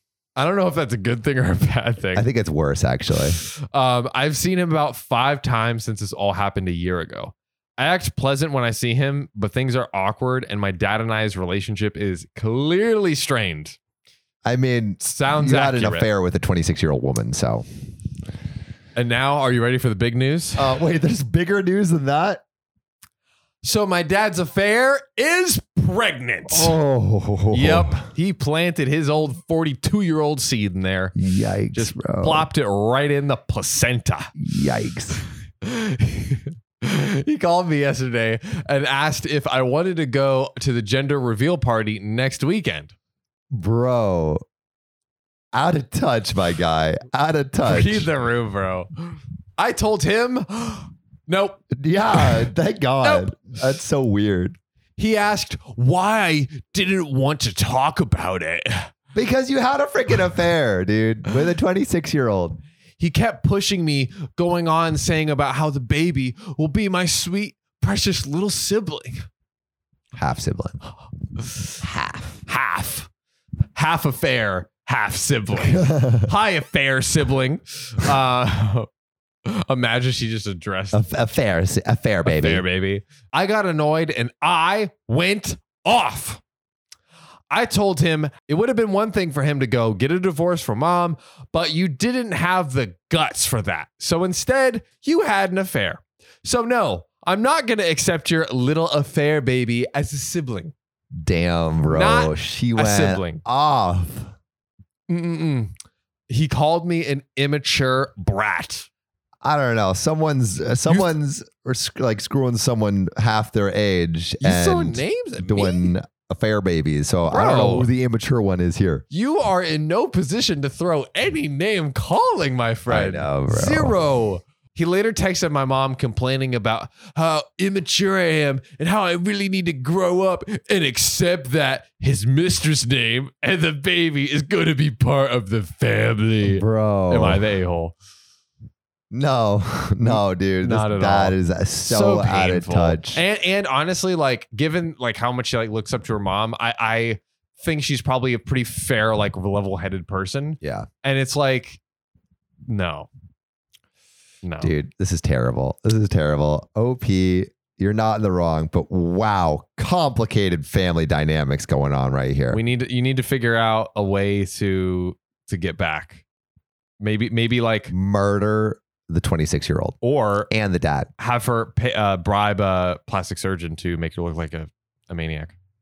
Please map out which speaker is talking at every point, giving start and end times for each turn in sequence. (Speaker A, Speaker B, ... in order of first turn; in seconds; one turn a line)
Speaker A: 0.4-2.3
Speaker B: 2.1-3.4
Speaker A: 3.4-13.8
Speaker B: 14.4-17.6
Speaker A: 15.0-16.1
Speaker A: 18.9-20.7
Speaker B: 20.6-22.4
Speaker A: 23.6-26.7
Speaker B: 26.5-28.0
Speaker A: 27.5-31.1
Speaker B: 31.1-32.5
Speaker A: 31.7-34.3
Speaker B: 34.4-35.2
Speaker A: 35.6-42.9
Speaker B: 43.5-44.4
Speaker B: 45.5-48.1
Speaker A: 47.7-51.6
Speaker B: 51.7-54.6
Speaker A: 52.1-52.5
Speaker A: 53.0-53.3
Speaker A: 55.0-58.9
Speaker B: 59.1-62.6
Speaker A: 63.0-69.2
Speaker B: 70.2-70.8
Speaker B: 71.8-72.4
Speaker A: 72.5-73.1
Speaker A: 73.8-78.9
Speaker B: 75.6-76.3
Speaker A: 79.5-81.1
Speaker B: 80.9-82.6
Speaker A: 82.2-86.4
Speaker A: 87.5-100.7
Speaker B: 101.2-104.3
Speaker A: 101.9-103.4
Speaker A: 105.1-105.7
Speaker A: 106.3-108.9
Speaker B: 109.4-119.0
Speaker A: 114.4-115.9
Speaker A: 117.3-117.9
Speaker A: 119.1-137.9
Speaker B: 122.9-124.0
Speaker B: 136.4-137.4
Speaker B: 139.1-143.2
Speaker A: 140.1-151.8
Speaker B: 150.6-150.9
Speaker A: 152.7-153.1
Speaker A: 154.4-154.7
Speaker B: 154.6-162.6
Speaker A: 162.5-166.2
Speaker A: 167.0-167.9
Speaker B: 167.9-170.0
Speaker A: 170.0-170.5
Speaker B: 170.5-171.1
Speaker A: 171.2-175.6